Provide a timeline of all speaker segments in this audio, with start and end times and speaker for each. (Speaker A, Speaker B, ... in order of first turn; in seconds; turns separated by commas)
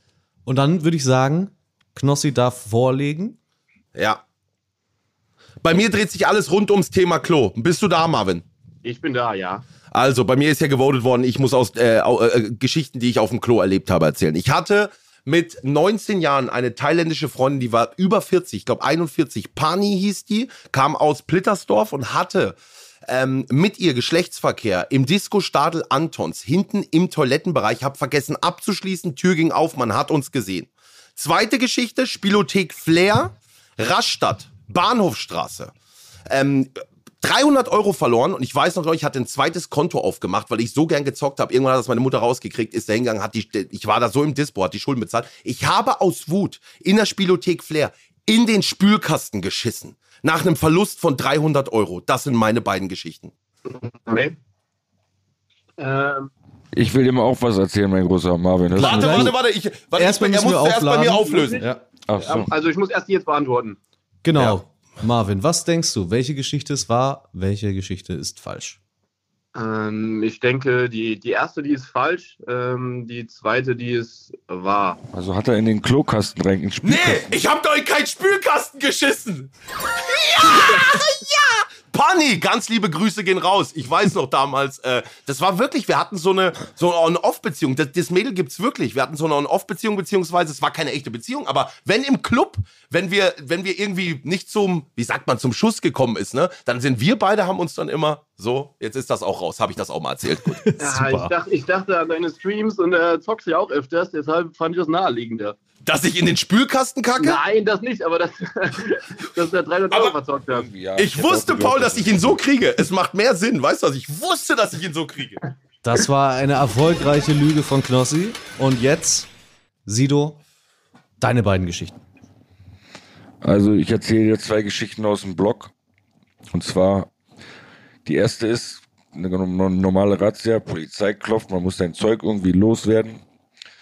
Speaker A: 0.5-3.4, Speaker B: 4.0-4.2, Speaker B: 5.6-8.4, Speaker C: 8.8-9.7, Speaker B: 9.9-35.7, Speaker B: 36.3-53.3, Speaker C: 53.7-54.4, Speaker C: 55.8-56.3, Speaker D: 56.7-59.3, Speaker A: 58.7-59.4, Speaker B: 58.8-61.6, Speaker A: 59.9-61.8, Speaker C: 61.3-61.6, Speaker D: 62.1-62.5, Speaker C: 62.2-63.8, Speaker A: 64.2-68.8, Speaker B: 64.4-64.6, Speaker C: 69.5-75.0, Speaker D: 75.1-77.3, Speaker B: 76.8-79.5, Speaker B: 80.0-100.6, Speaker A: 100.5-101.3, Speaker C: 100.8-105.6, Speaker B: 105.8-107.4, Speaker C: 107.2-110.7, Speaker D: 110.5-112.4, Speaker B: 111.0-115.4, Speaker A: 115.8-119.3, Speaker A: 119.9-120.4, Speaker A: 121.2-122.0, Speaker D: 123.4-125.7, Speaker D: 126.5-127.1, Speaker D: 128.1-133.2